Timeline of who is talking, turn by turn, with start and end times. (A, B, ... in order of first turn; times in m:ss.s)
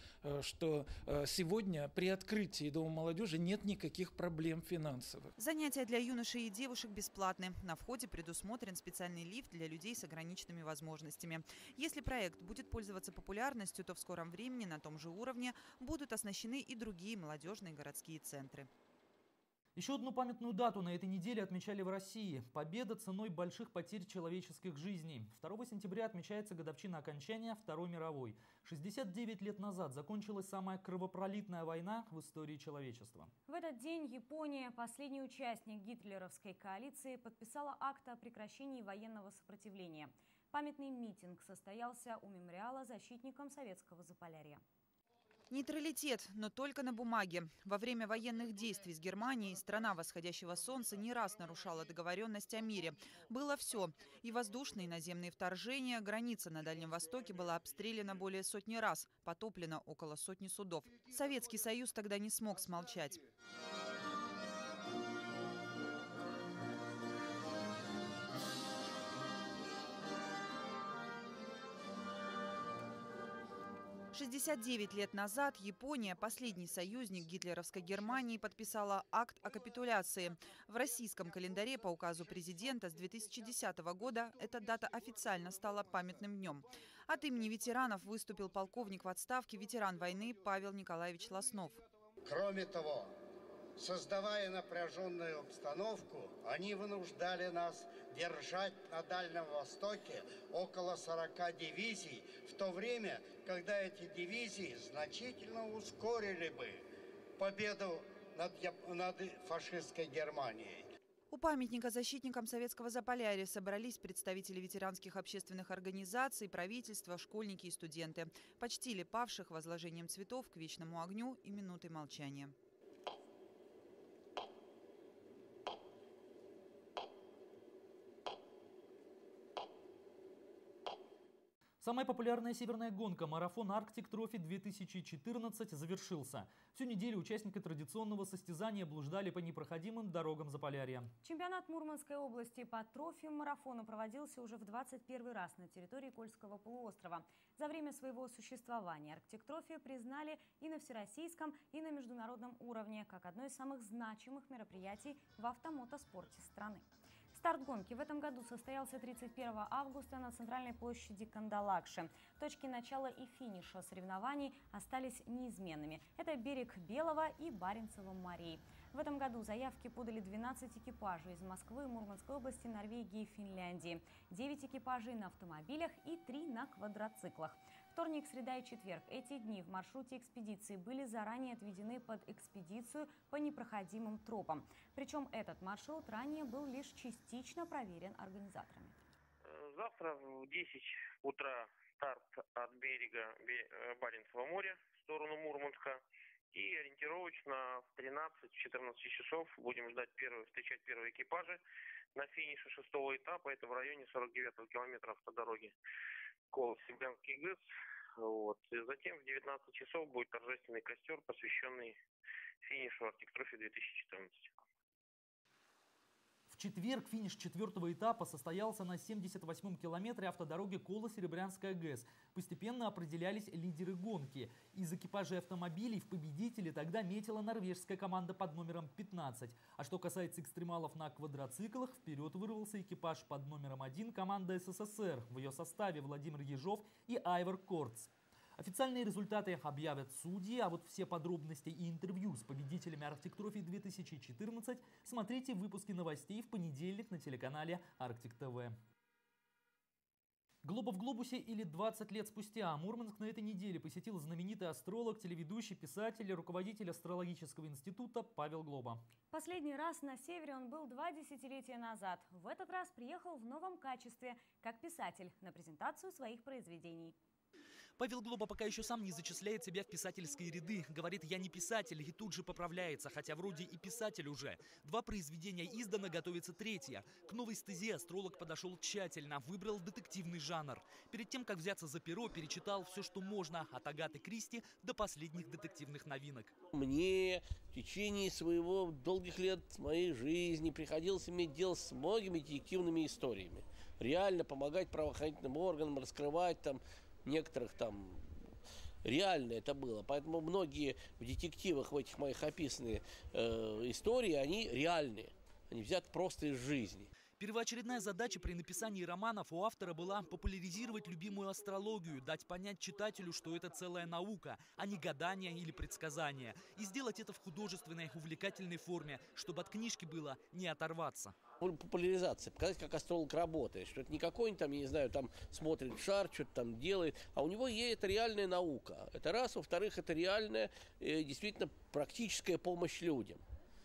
0:00.6-0:04.5 A
0:05.4-0:18.7 B
0:19.8-0:33.3 C
0:33.5-0:44.6 D
0:45.5-1:03.3 B
1:14.1-1:31.8 B
1:32.2-1:33.2 E
1:33.8-1:46.8 E
1:47.4-1:50.9 E
1:51.3-2:02.5 B
2:11.8-2:21.1 C
2:21.2-3:09.0 D
3:09.4-3:16.0 F
3:16.5-3:21.6 F
3:22.2-3:25.8 F
3:26.5-3:27.6 F
3:28.2-3:32.0 F
3:32.6-3:34.5 F
3:36.5-4:08.8 C
4:10.6-4:19.0 C
4:19.3-4:27.2 D
4:28.0-4:46.5 C
4:46.8-4:58.2 G
4:59.0-5:07.1 G
5:07.4-5:21.4 C
5:21.6-5:33.4 G